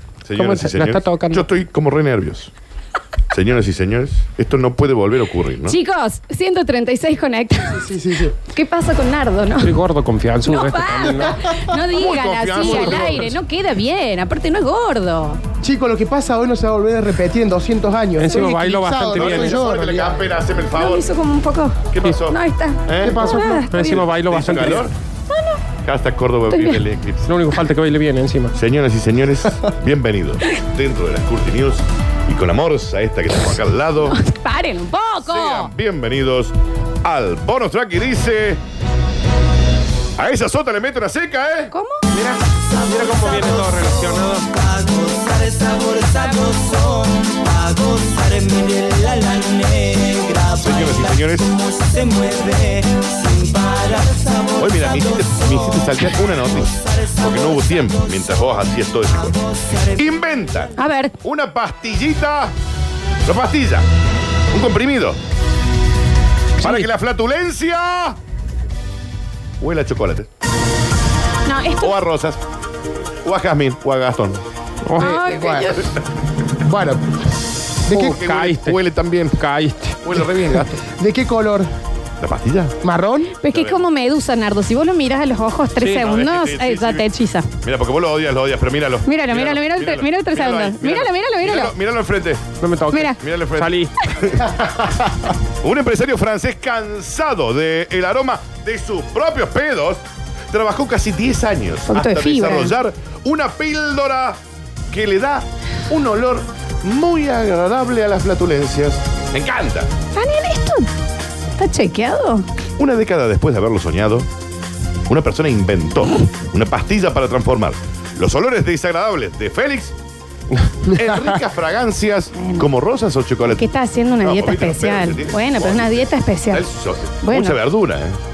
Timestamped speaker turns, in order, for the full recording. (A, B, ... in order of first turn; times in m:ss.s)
0:00.2-0:02.5 A
0:00.3-0:01.4 B
0:03.3-0:05.8 A
0:05.6-0:09.8 C
0:07.7-0:08.3 D
0:09.6-0:11.4 B
0:10.4-0:15.4 C
0:11.9-0:13.4 A
0:12.6-0:13.2 D
0:15.6-0:20.2 D
0:18.2-0:19.6 B
0:19.1-0:21.0 A
0:20.7-0:24.1 C
0:21.9-0:24.9 A
0:23.0-0:23.6 D
0:23.7-0:24.9 B
0:25.3-0:25.6 C
0:25.8-0:27.3 A
0:26.5-0:26.8 C
0:27.2-0:28.5 B
0:28.5-0:34.2 A
0:34.0-0:35.7 C
0:35.2-0:38.6 A
0:40.2-0:41.7 A
0:41.7-0:42.1 C
0:42.1-0:47.1 B
0:44.8-0:46.0 E
0:46.7-0:50.5 E
0:50.5-0:51.6 A
0:51.8-0:54.5 E
0:54.6-1:02.5 A
1:00.7-1:01.1 C
1:03.2-1:03.8 A
1:04.5-1:05.2 A
1:06.6-1:06.9 B
1:06.6-1:08.2 A
1:09.6-1:10.3 A
1:11.4-1:12.0 C
1:11.8-1:12.4 A
1:13.2-1:14.4 A
1:14.8-1:15.2 B
1:15.0-1:15.9 C
1:15.0-1:15.8 D
1:16.6-1:17.0 D
1:17.9-1:18.2 D
1:17.9-1:18.8 B
1:18.0-1:19.4 A
1:19.4-1:20.0 B
1:20.0-1:20.8 A
1:20.4-1:21.7 D
1:22.2-1:22.8 A
1:22.8-1:23.4 D
1:23.4-1:27.5 C
1:23.5-1:23.8 A
1:25.8-1:26.2 B
1:26.1-1:27.0 A
1:27.6-1:32.5 A
1:29.0-1:31.7 C
1:32.6-1:33.9 B
1:32.9-1:33.2 C
1:33.2-1:35.1 A
1:35.6-1:44.4 A
1:41.9-1:42.8 C
1:44.9-1:49.9 A
1:50.1-1:50.9 C
1:51.6-1:52.4 C
1:52.8-1:54.3 A
1:55.1-1:59.9 A
2:00.8-2:08.2 A
2:02.4-2:02.7 C
2:03.5-2:06.6 C
2:07.2-2:07.6 C